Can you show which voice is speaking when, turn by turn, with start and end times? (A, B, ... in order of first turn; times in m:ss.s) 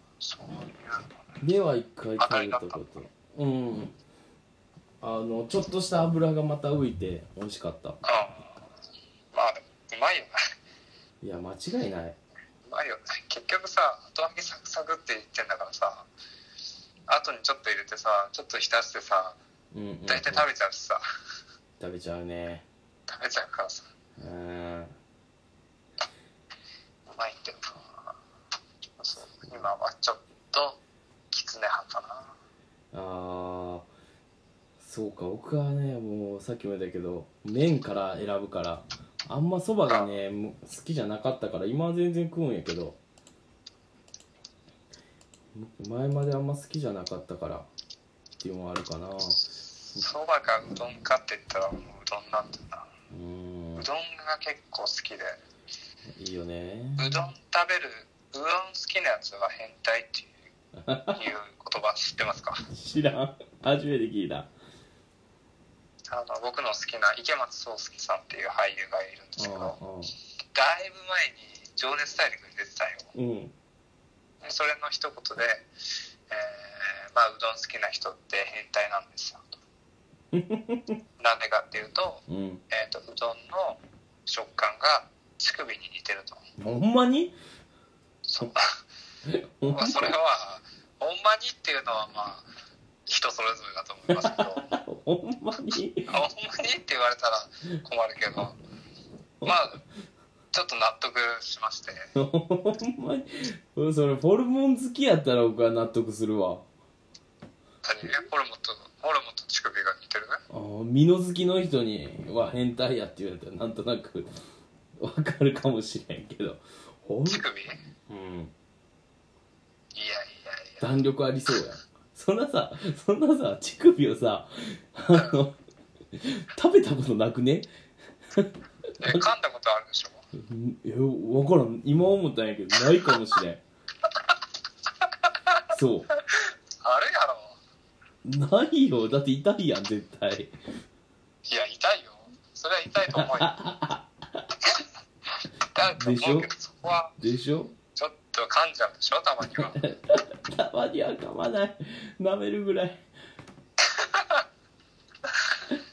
0:00.2-0:01.2 A
0:01.4-0:04.0 B
0:02.2-0:03.0 A
0:05.0-0:08.0 B
0:08.0-0:08.6 A
0:09.3-0:10.3 A
0:11.2-0:12.2 B
0:12.7-0:16.1 A
0:17.1-0:19.4 A
0:19.7-0:20.5 B
0:20.1-0:21.0 A
0:21.8-0:22.7 B
0:23.1-0:23.9 A
0:24.2-0:24.9 B
0:27.1-0:28.1 A
0:29.0-0:30.8 A
0:31.3-0:32.3 A
0:32.9-0:33.8 B
0:34.8-0:43.0 B
0:39.9-0:40.2 A
0:45.5-0:47.7 B
0:48.4-0:49.4 B
0:50.0-0:52.9 A
0:53.1-0:53.9 B
0:53.8-0:55.4 A
0:56.2-0:57.3 B
0:57.0-1:00.3 A
1:00.8-1:01.2 B
1:01.2-1:02.6 A
1:02.7-1:04.5 B
1:06.1-1:09.8 A
1:09.4-1:10.1 B
1:10.5-1:13.1 A
1:13.2-1:13.5 B
1:14.4-1:15.7 A
1:16.3-1:19.6 A
1:20.3-1:21.0 B
1:21.2-1:26.4 A
1:22.3-1:22.6 B
1:26.6-1:27.4 B
1:28.3-1:28.7 A
1:29.3-1:30.1 B
1:29.7-1:32.5 A
1:33.1-1:34.7 A
1:34.2-1:36.1 B
1:36.1-1:38.6 A
1:39.4-1:39.8 A
1:40.5-1:42.1 A
1:42.2-1:46.6 B
1:47.8-1:50.4 A
1:50.5-1:54.3 B
1:55.0-1:57.4 B
1:57.3-1:57.8 A
1:58.1-1:58.5 B
2:00.0-2:01.0 A
2:00.8-2:05.6 B
2:05.1-2:05.4 A
2:06.1-2:07.7 B
2:08.3-2:09.3 B
2:09.0-2:10.2 A
2:10.4-2:13.6 B
2:15.3-2:15.6 A
2:15.7-2:16.1 B
2:16.3-2:17.6 A
2:18.2-2:20.5 B
2:21.5-2:23.5 A
2:23.1-2:24.5 B
2:25.7-2:27.2 A
2:26.0-2:26.5 B
2:27.2-2:27.8 B
2:28.0-2:29.9 A
2:29.6-2:33.0 B
2:33.8-2:34.4 A